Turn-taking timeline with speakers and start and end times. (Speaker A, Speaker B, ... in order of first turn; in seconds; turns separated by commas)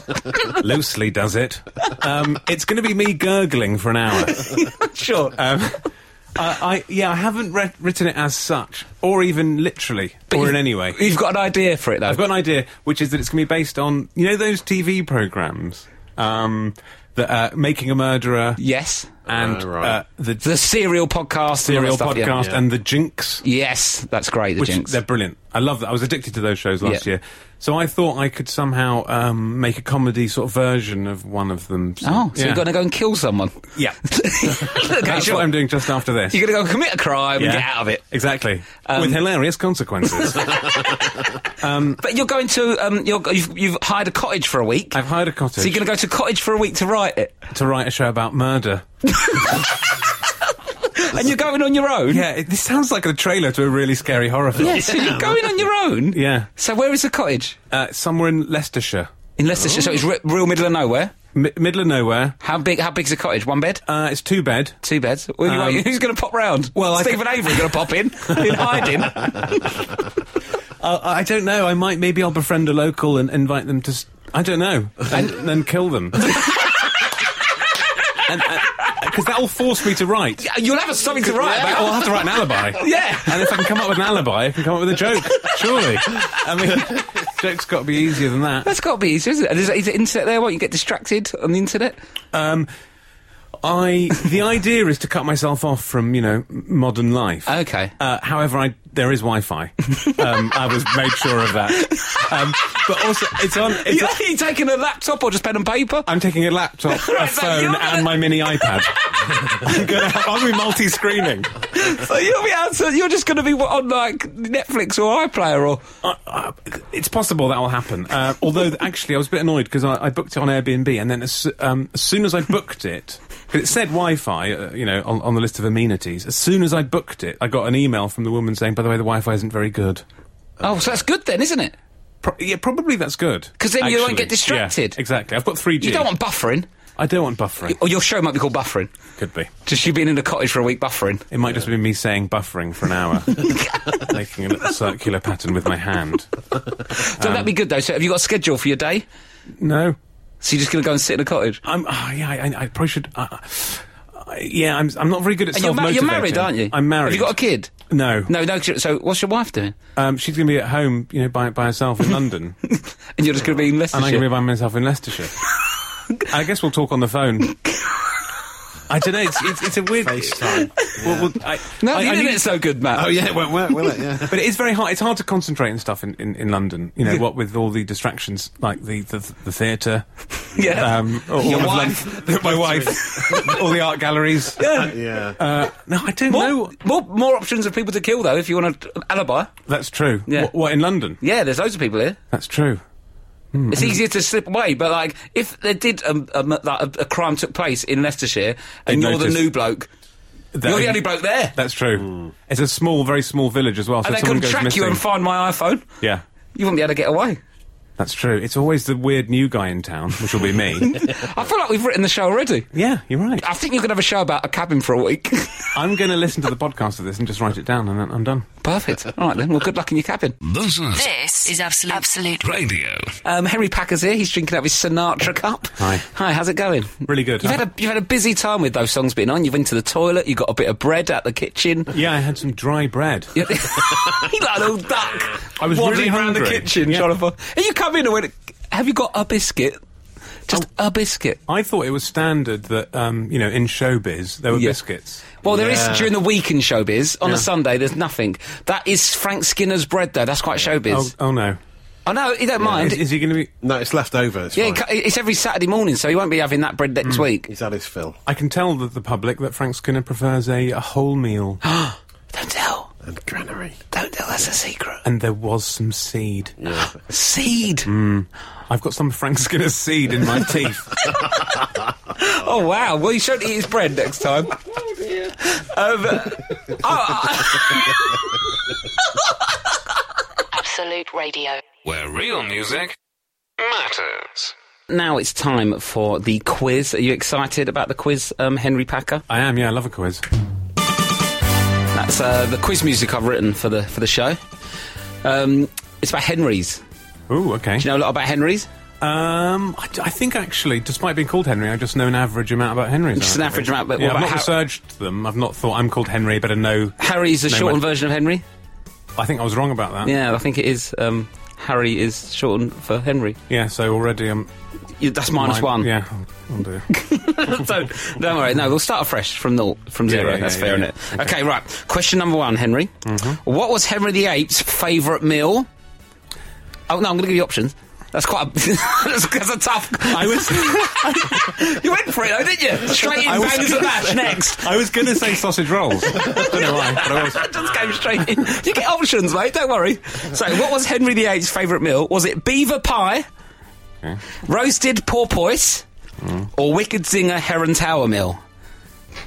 Speaker A: 0.3-0.6, Speaker B: 0.5-4.7, Speaker A: 4.2-5.4, Speaker B: 5.3-11.0, Speaker A: 10.3-12.2, Speaker B: 12.1-18.6, Speaker A: 18.6-19.1, Speaker C: 19.3-20.0, Speaker B: 19.3-20.4, Speaker A: 20.4-22.4, Speaker B: 21.6-23.4, Speaker C: 22.4-22.6, Speaker A: 23.4-25.0, Speaker B: 24.6-32.7, Speaker A: 32.0-35.7, Speaker B: 33.8-36.4, Speaker A: 36.3-38.0, Speaker B: 37.4-40.9, Speaker A: 38.9-39.2, Speaker B: 41.5-42.0, Speaker A: 42.0-45.0, Speaker B: 44.9-45.9, Speaker A: 45.6-47.4, Speaker B: 47.5-48.9, Speaker A: 49.1-49.7, Speaker A: 50.9-52.2, Speaker B: 52.1-55.3, Speaker A: 54.6-57.6, Speaker C: 54.7-55.4, Speaker B: 56.1-56.5, Speaker B: 57.7-59.1, Speaker A: 59.4-61.1, Speaker B: 61.3-62.4, Speaker A: 62.4-63.8, Speaker B: 63.9-64.8, Speaker A: 64.8-69.8, Speaker B: 65.4-65.9, Speaker B: 66.8-69.0, Speaker B: 70.8-76.8, Speaker A: 76.2-76.8, Speaker B: 78.2-80.5, Speaker A: 80.4-83.6, Speaker B: 81.2-88.7, Speaker A: 88.6-92.0, Speaker B: 92.3-92.7, Speaker B: 93.6-104.2, Speaker A: 97.5-97.9, Speaker A: 101.8-102.3, Speaker A: 103.6-106.1, Speaker B: 106.1-111.5, Speaker A: 106.9-108.9, Speaker A: 111.7-115.8, Speaker B: 116.0-130.0, Speaker C: 130.6-131.0, Speaker A: 130.6-131.8, Speaker B: 132.2-136.1, Speaker A: 133.6-135.0, Speaker A: 135.8-136.7, Speaker B: 137.0-137.8, Speaker A: 137.7-138.9, Speaker B: 139.2-139.5, Speaker A: 139.7-141.3, Speaker B: 141.3-146.3, Speaker A: 143.3-144.1, Speaker A: 146.9-149.1, Speaker B: 147.2-147.5, Speaker B: 149.6-150.0, Speaker A: 150.4-151.6, Speaker B: 151.6-157.4, Speaker A: 155.5-157.7, Speaker B: 157.9-158.3, Speaker A: 158.3-159.8, Speaker B: 160.0-162.6, Speaker A: 162.7-164.3, Speaker B: 163.9-165.4, Speaker B: 166.3-167.6, Speaker B: 168.9-172.4, Speaker C: 170.0-171.4, Speaker A: 171.8-173.2, Speaker C: 172.9-174.4, Speaker B: 174.3-186.8, Speaker A: 180.5-182.4, Speaker C: 182.4-183.6, Speaker A: 183.1-183.6, Speaker A: 184.6-184.9, Speaker C: 184.6-185.4, Speaker A: 186.3-189.5, Speaker B: 189.7-191.2, Speaker A: 190.3-190.5, Speaker A: 191.2-192.2, Speaker B: 192.3-192.8, Speaker B: 193.5-194.0, Speaker A: 193.7-199.9, Speaker B: 198.9-199.5, Speaker B: 200.5-205.0, Speaker A: 200.6-201.6, Speaker A: 204.0-205.9, Speaker A: 206.6-207.4, Speaker B: 208.0-211.0, Speaker A: 210.8-212.7, Speaker B: 212.7-213.4, Speaker A: 213.4-215.8, Speaker B: 215.7-218.5, Speaker A: 218.6-220.4, Speaker D: 220.4-221.1, Speaker E: 220.9-222.6, Speaker D: 222.4-223.1, Speaker A: 223.2-231.9, Speaker B: 225.8-226.1, Speaker B: 227.1-227.6, Speaker B: 231.9-233.4, Speaker A: 233.3-239.8, Speaker B: 235.6-237.1, Speaker A: 240.5-241.4, Speaker B: 241.5-245.3, Speaker A: 244.5-244.8, Speaker A: 245.4-251.1, Speaker C: 245.4-246.1, Speaker B: 250.9-251.6, Speaker A: 252.1-253.0, Speaker C: 252.6-253.0, Speaker B: 252.8-253.5, Speaker C: 253.6-254.8, Speaker A: 254.6-257.5, Speaker C: 257.5-258.2, Speaker B: 258.3-261.6, Speaker A: 261.6-262.9, Speaker C: 263.0-263.8, Speaker A: 263.9-265.0, Speaker B: 265.1-266.6, Speaker C: 266.6-267.0, Speaker A: 267.1-267.9, Speaker B: 267.9-271.1, Speaker A: 272.1-278.4, Speaker E: 280.5-281.6, Speaker D: 281.8-283.0, Speaker D: 283.6-284.5, Speaker A: 284.9-289.2, Speaker B: 289.3-290.2, Speaker A: 291.9-294.4, Speaker A: 295.2-296.8, Speaker B: 297.3-297.9, Speaker A: 297.8-298.7, Speaker B: 299.0-307.8, Speaker A: 303.1-304.5, Speaker A: 307.0-308.4, Speaker B: 309.2-310.1, Speaker A: 310.0-313.4, Speaker B: 313.5-314.5, Speaker A: 315.0-315.9, Speaker B: 315.4-316.9, Speaker A: 316.9-325.7, Speaker B: 320.1-321.3, Speaker B: 323.1-323.4, Speaker A: 326.9-334.7, Speaker B: 330.1-331.6, Speaker B: 332.9-337.5, Speaker A: 336.1-343.3, Speaker A: 344.4-345.9, Speaker B: 346.2-346.5, Speaker A: 346.5-348.4